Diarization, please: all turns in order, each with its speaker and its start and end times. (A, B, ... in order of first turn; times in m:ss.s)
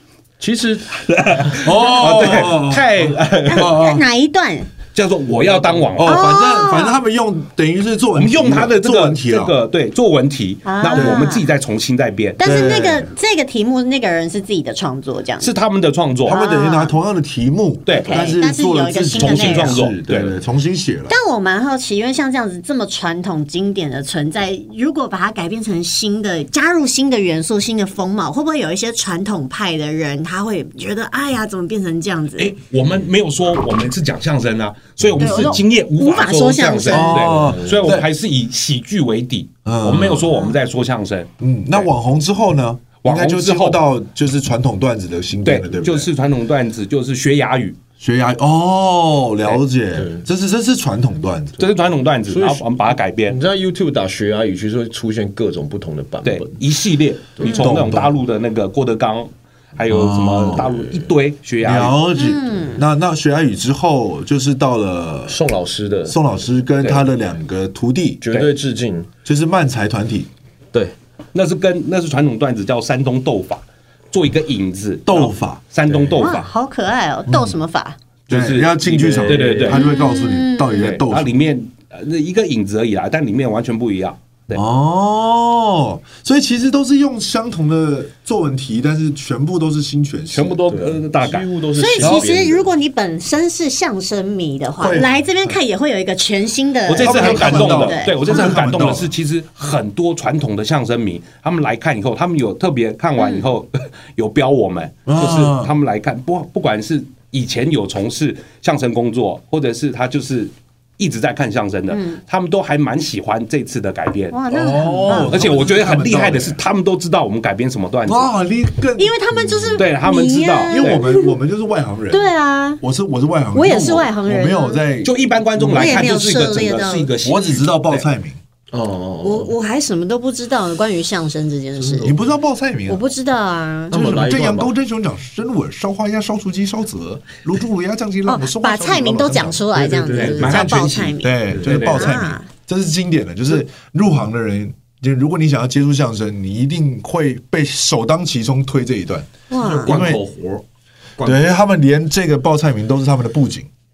0:00.4-0:02.2 A
0:01.1-0:03.8 B
0:01.6-0:02.9 C
0:03.4-0:04.7 D
0:03.5-0:04.0 C
0:04.9-0:06.2 B
0:06.0-0:09.6 C
0:06.0-0:07.0 D
0:08.2-0:12.4 B
0:10.6-0:11.4 D
0:10.9-0:11.3 C
0:12.4-0:15.5 D
0:12.4-0:13.1 C
0:15.4-0:16.4 B
0:16.2-0:21.2 C
0:16.2-0:16.9 D
0:17.8-0:18.3 B
0:18.0-0:19.8 D
0:19.2-0:20.3 B
0:21.1-0:32.5 D
0:32.4-0:41.9 B
0:35.2-0:37.2 D
0:36.9-0:38.1 C
0:37.1-0:38.0 A
0:39.6-0:40.3 C
0:41.4-0:46.1 C
0:43.0-0:43.8 B
0:45.4-0:47.8 B
0:48.0-0:51.6 C
0:49.9-0:50.2 A
0:51.6-0:53.4 B
0:52.3-0:56.6 A
0:56.2-1:02.0 B
0:57.4-0:57.7 D
0:57.4-0:58.2 C
0:59.9-1:00.8 C
1:01.6-1:05.4 C
1:02.2-1:02.8 D
1:05.3-1:06.2 A
1:06.1-1:08.2 C
1:08.2-1:09.1 A
1:09.2-1:10.3 C
1:11.3-1:16.5 B
1:15.0-1:15.6 C
1:15.8-1:16.2 A
1:16.2-1:18.0 D
1:17.2-1:17.6 C
1:18.3-1:19.9 B
1:18.3-1:21.3 C
1:19.1-1:19.8 A
1:19.7-1:21.0 D
1:20.7-1:24.6 B
1:24.5-1:30.6 C
1:30.3-1:31.5 B
1:30.7-1:32.7 A
1:31.8-1:38.7 D
1:32.0-1:32.3 C
1:34.8-1:35.6 C
1:36.8-1:54.4 B
1:37.0-1:39.1 C
1:43.2-1:43.5 D
1:45.0-1:45.7 C
1:51.9-1:52.2 D
1:54.3-1:55.8 D
1:54.5-1:56.6 C
1:54.8-1:55.4 A
1:55.3-1:58.3 B
1:58.0-1:59.8 C
1:59.0-2:01.3 D
1:59.8-2:01.0 B
2:00.7-2:06.2 C
2:02.1-2:02.8 D
2:03.5-2:04.8 D
2:05.0-2:08.0 B
2:05.7-2:07.1 D
2:07.2-2:08.4 C
2:08.7-2:09.5 A
2:09.2-2:12.2 D
2:11.8-2:12.2 A
2:12.0-2:13.0 C
2:12.9-2:14.0 D
2:13.9-2:14.7 A
2:13.9-2:29.3 C
2:18.2-2:22.5 D
2:19.9-2:20.6 A
2:19.9-2:22.2 B
2:21.5-2:21.8 A
2:29.5-2:30.0 D
2:29.5-2:30.6 A
2:29.8-2:30.2 C
2:31.2-2:31.4 A
2:31.2-2:33.7 C